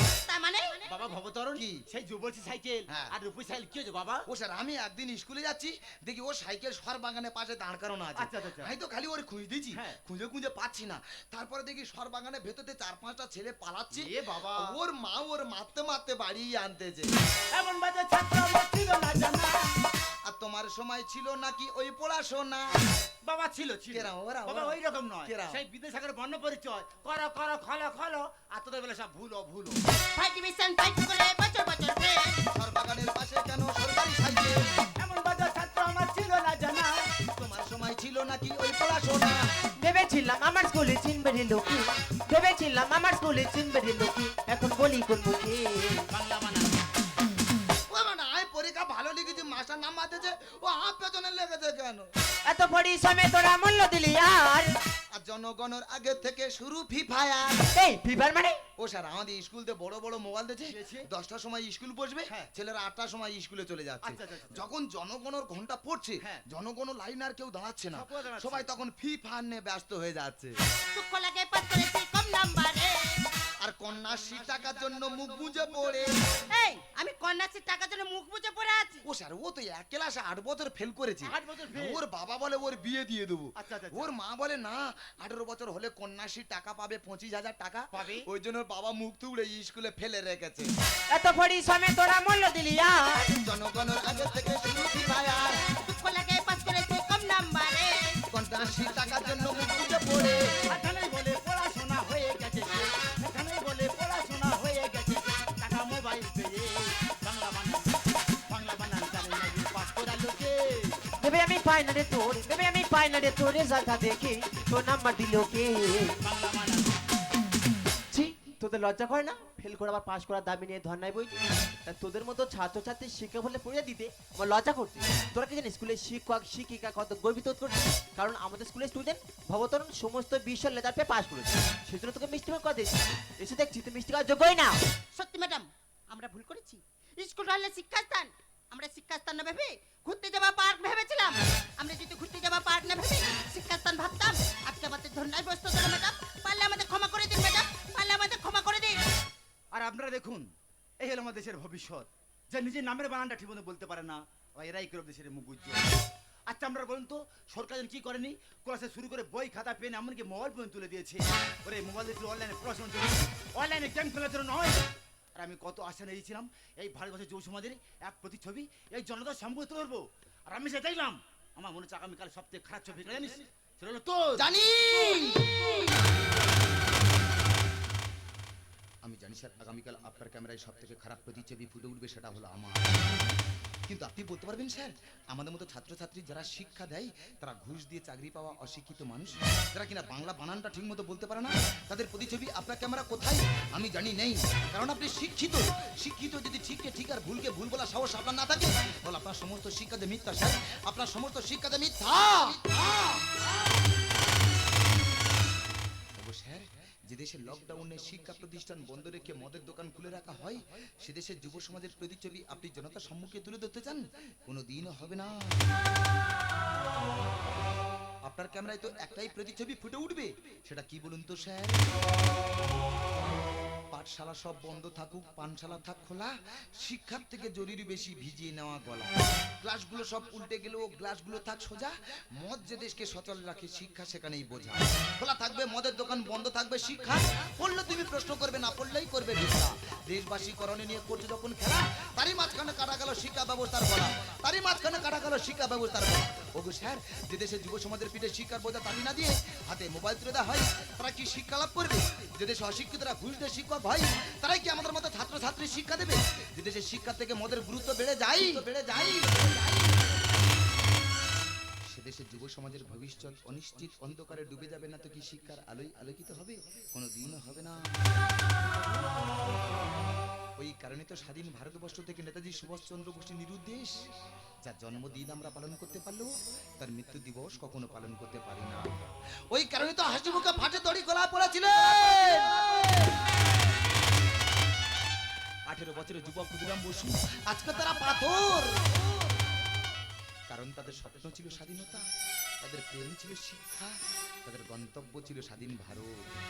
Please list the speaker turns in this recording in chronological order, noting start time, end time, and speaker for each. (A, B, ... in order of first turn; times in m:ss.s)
0:00.3-0:00.8 A
0:00.8-0:04.2 B
0:01.5-0:01.8 C
0:04.3-0:17.1 C
0:08.2-0:08.7 B
0:13.9-0:14.8 B
0:17.5-0:19.7 B
0:20.2-0:22.8 C
0:23.2-0:29.8 B
0:23.9-0:25.6 C
0:30.2-0:32.4 A
0:32.5-0:34.7 C
0:35.0-0:37.1 B
0:37.3-0:39.5 C
0:39.8-0:46.0 D
0:46.1-0:46.8 B
0:47.9-0:52.1 C
0:52.4-0:54.8 D
0:55.1-0:57.6 C
0:57.7-0:58.6 D
0:58.8-1:10.5 C
1:00.7-1:01.0 B
1:04.0-1:04.6 B
1:07.9-1:08.7 B
1:10.9-1:13.2 A
1:13.6-1:16.2 C
1:16.5-1:19.0 A
1:19.0-1:30.7 C
1:21.2-1:22.0 B
1:23.6-1:24.1 B
1:27.9-1:28.2 B
1:31.1-1:33.4 D
1:33.4-1:35.7 C
1:35.7-1:38.2 A
1:38.3-1:40.6 C
1:38.8-1:39.7 B
1:40.6-1:51.0 B
1:51.2-1:56.2 D
1:56.2-1:56.9 B
1:58.1-2:14.8 D
2:15.1-2:29.0 A
2:29.7-2:30.5 B
2:31.0-2:35.8 B
2:36.5-2:44.8 B
2:45.3-2:54.4 B
2:54.4-2:55.9 C
2:59.0-3:03.1 C
3:03.9-3:23.2 C
3:26.2-3:35.6 C
3:38.2-3:41.8 C
3:43.9-4:20.2 C
4:21.9-4:28.0 C
4:30.6-4:33.9 C
4:34.6-4:38.9 C
4:39.5-4:43.3 C
4:45.7-4:49.0 C
4:50.5-4:52.0 C
4:52.6-4:56.1 C